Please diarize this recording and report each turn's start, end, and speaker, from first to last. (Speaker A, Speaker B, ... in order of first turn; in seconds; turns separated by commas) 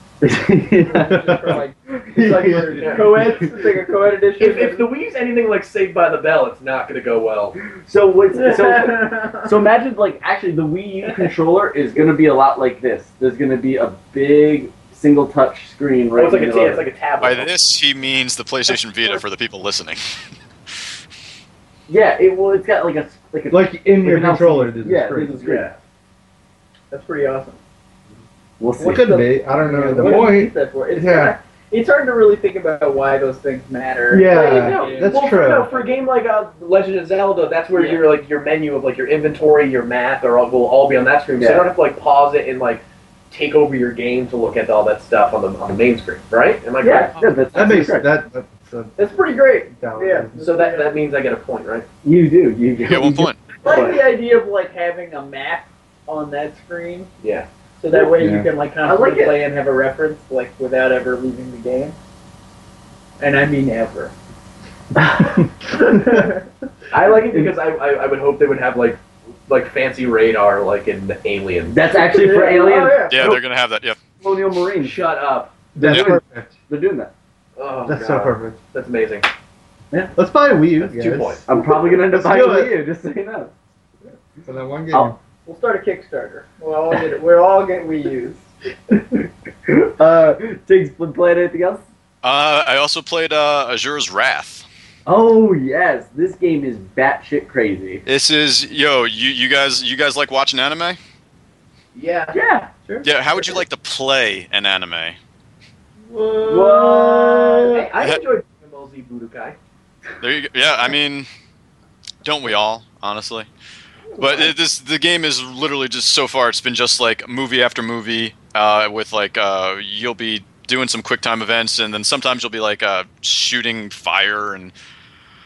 Speaker A: 0.2-3.5, Speaker B: 0.8-4.9, Speaker C: 1.1-1.6, Speaker D: 2.8-3.3, Speaker D: 4.4-7.6, Speaker A: 7.7-16.8, Speaker B: 8.3-9.5, Speaker D: 16.1-17.5, Speaker E: 17.2-20.0, Speaker A: 21.9-25.7, Speaker C: 23.5-25.4, Speaker D: 25.4-25.8, Speaker B: 26.9-27.6, Speaker A: 28.6-29.1, Speaker B: 28.8-35.9, Speaker C: 28.9-31.3, Speaker A: 30.0-30.3, Speaker C: 34.1-35.7, Speaker D: 34.4-47.2, Speaker B: 37.8-38.0, Speaker A: 41.4-41.7, Speaker A: 46.8-48.1, Speaker C: 47.5-49.1, Speaker B: 49.0-51.0, Speaker C: 49.7-50.4, Speaker D: 50.4-51.9, Speaker A: 52.0-54.0, Speaker E: 52.8-53.4, Speaker B: 53.6-57.1, Speaker D: 57.2-57.5, Speaker B: 57.8-62.0, Speaker C: 58.1-58.5, Speaker A: 58.8-59.4, Speaker B: 63.2-64.1, Speaker B: 65.7-66.4, Speaker D: 66.9-71.8, Speaker A: 67.0-67.5, Speaker A: 71.7-73.4, Speaker B: 72.0-73.4, Speaker E: 73.1-74.0, Speaker A: 74.2-75.0, Speaker D: 74.8-75.7, Speaker C: 75.8-76.6, Speaker A: 75.8-77.1, Speaker E: 75.8-76.2, Speaker D: 77.6-79.3, Speaker C: 77.9-78.6, Speaker C: 80.2-82.7, Speaker D: 80.8-81.5, Speaker A: 81.5-83.5, Speaker C: 84.4-85.2, Speaker B: 85.5-88.5, Speaker A: 89.2-91.8, Speaker E: 92.2-94.7, Speaker A: 95.1-98.0, Speaker E: 98.1-101.0, Speaker D: 101.9-102.4, Speaker A: 102.3-102.7, Speaker E: 103.0-105.2, Speaker C: 106.1-107.7, Speaker A: 106.5-107.8, Speaker D: 107.7-109.6, Speaker E: 110.2-111.3, Speaker E: 112.2-113.5, Speaker E: 114.2-124.7